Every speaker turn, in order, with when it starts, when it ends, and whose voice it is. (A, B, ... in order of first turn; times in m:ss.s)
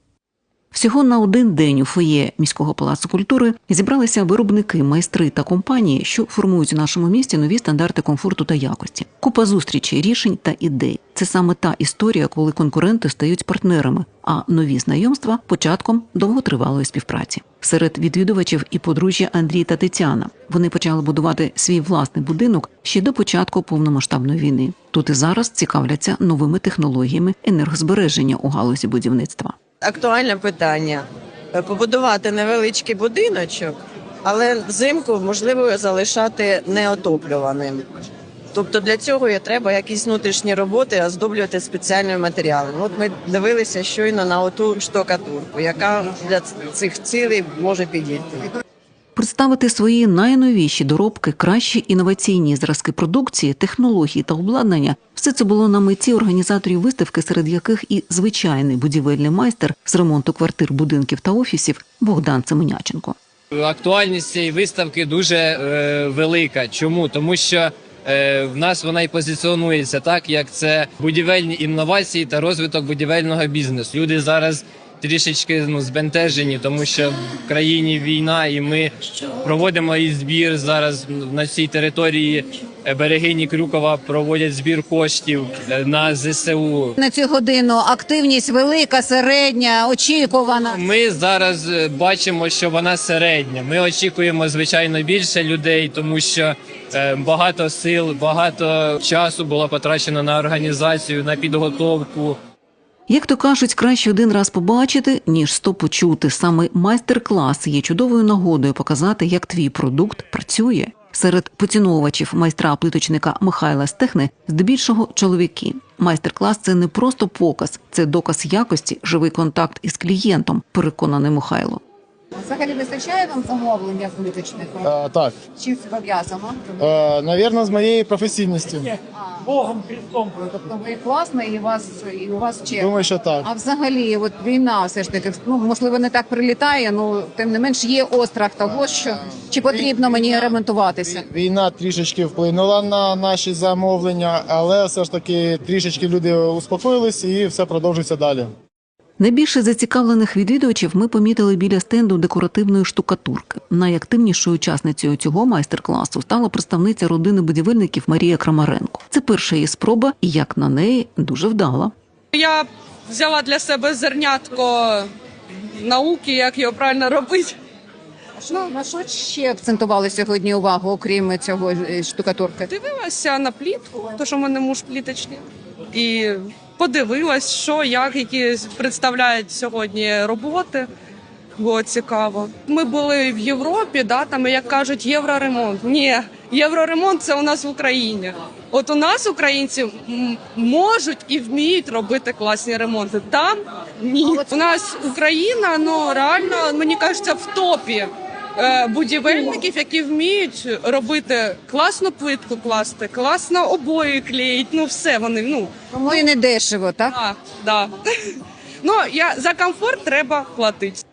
0:00.7-0:29.6 A
0:29.9-0:31.0 B
0:31.6-0:37.8 B
0:38.5-0:48.5 B
0:49.2-1:03.2 A
1:03.6-1:18.9 C
1:19.4-1:27.0 C
1:27.0-1:30.8 D
1:30.7-1:42.4 C
1:43.1-2:01.8 A
2:02.4-2:04.9 D
2:04.8-2:05.4 E
2:05.5-2:06.8 D
2:06.8-2:09.0 E
2:09.1-2:21.3 D
2:12.8-2:13.5 E
2:19.7-2:20.6 E
2:21.1-2:28.5 E
2:29.2-2:41.9 A
2:42.3-2:45.1 F
2:45.8-2:47.6 F
2:48.4-2:52.7 D
2:52.7-3:00.9 F
3:01.6-3:25.7 F
3:25.9-3:27.2 D
3:27.1-3:31.0 F